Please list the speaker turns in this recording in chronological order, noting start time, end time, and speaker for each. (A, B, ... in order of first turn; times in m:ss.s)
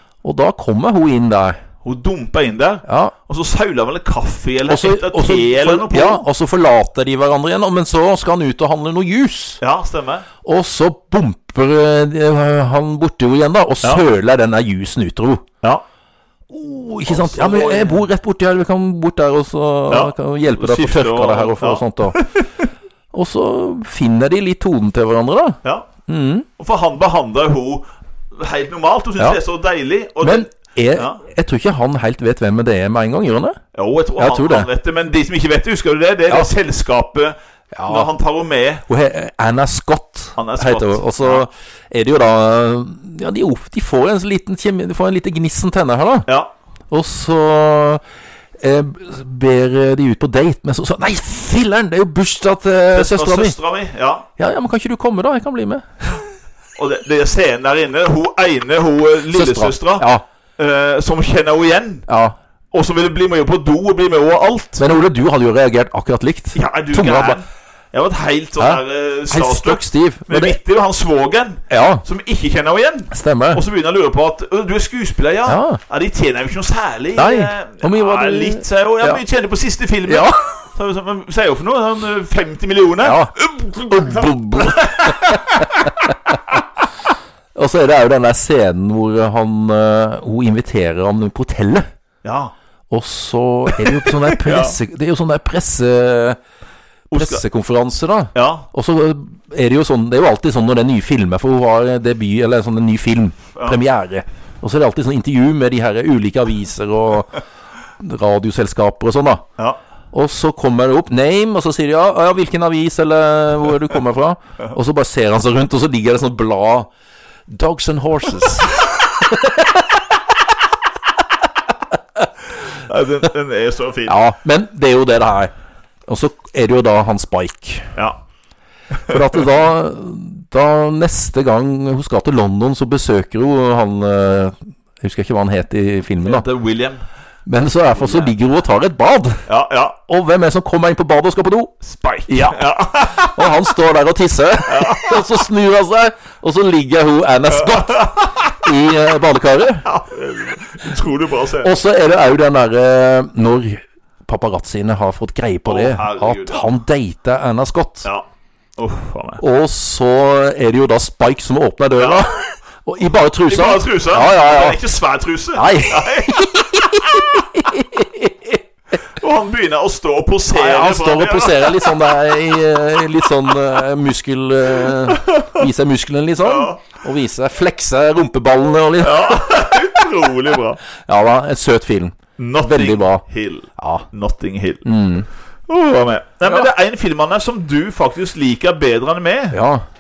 0:00.2-0:01.6 A
0:01.8-0:06.3 B
0:02.9-0:03.2 A
0:04.7-0:09.6 A
0:09.6-0:10.3 B
0:10.4-0:15.4 A
0:16.5-0:22.2 A
0:17.1-0:18.1 B
0:19.9-0:22.7 B
0:23.1-0:26.5 A
0:26.6-0:31.2 B
0:30.2-0:33.6 A
0:33.7-0:37.4 B
0:34.2-0:34.7 A
0:37.7-0:38.1 A
0:37.9-0:38.8 B
0:38.9-0:46.3 A
0:40.4-0:41.5 B
0:46.3-0:46.5 B
0:46.9-0:48.0 A
0:48.6-0:53.6 A
0:52.9-0:54.3 B
0:54.4-0:56.2 A
0:56.8-1:00.1 B
0:59.3-1:00.2 A
1:00.6-1:02.1 B
1:02.1-1:02.4 A
1:02.7-1:04.8 B
1:04.8-1:07.4 A
1:06.6-1:25.9 B
1:08.6-1:10.6 A
1:11.7-1:12.0 A
1:13.1-1:13.6 A
1:15.5-1:15.8 A
1:17.2-1:19.2 A
1:20.1-1:20.5 A
1:23.0-1:26.4 A
1:27.6-1:31.9 A
1:32.2-1:32.5 B
1:32.9-1:36.4 A
1:33.7-1:34.8 B
1:37.1-1:37.4 B
1:37.1-1:47.4 A
1:38.4-1:38.7 B
1:48.0-1:49.4 A
1:50.1-1:56.9 A
1:57.5-2:00.0 A
2:02.7-2:04.2 B
2:04.1-2:05.5 A
2:06.1-2:07.9 A
2:09.1-2:16.5 A
2:09.1-2:09.4 B
2:16.2-2:17.0 B
2:17.5-2:19.4 A
2:18.0-2:18.3 B
2:19.5-2:20.0 B
2:20.1-2:21.8 A
2:21.8-2:23.4 B
2:22.3-2:29.9 A
2:24.7-2:25.4 B
2:27.5-2:28.5 B
2:29.8-2:31.8 B
2:31.6-2:38.1 A
2:35.7-2:36.7 B
2:38.8-2:39.4 B
2:39.4-2:44.8 A
2:42.0-2:42.3 B
2:43.4-2:47.4 B
2:45.6-2:48.6 A
2:49.2-2:52.3 B
2:50.5-2:59.9 A
2:54.9-2:55.6 B
2:56.4-2:56.8 B
2:59.0-3:00.8 B
3:01.1-3:03.2 A
3:02.4-3:04.9 B
3:03.8-3:04.1 A
3:04.8-3:05.3 A
3:05.7-3:09.6 B
3:09.5-3:09.8 A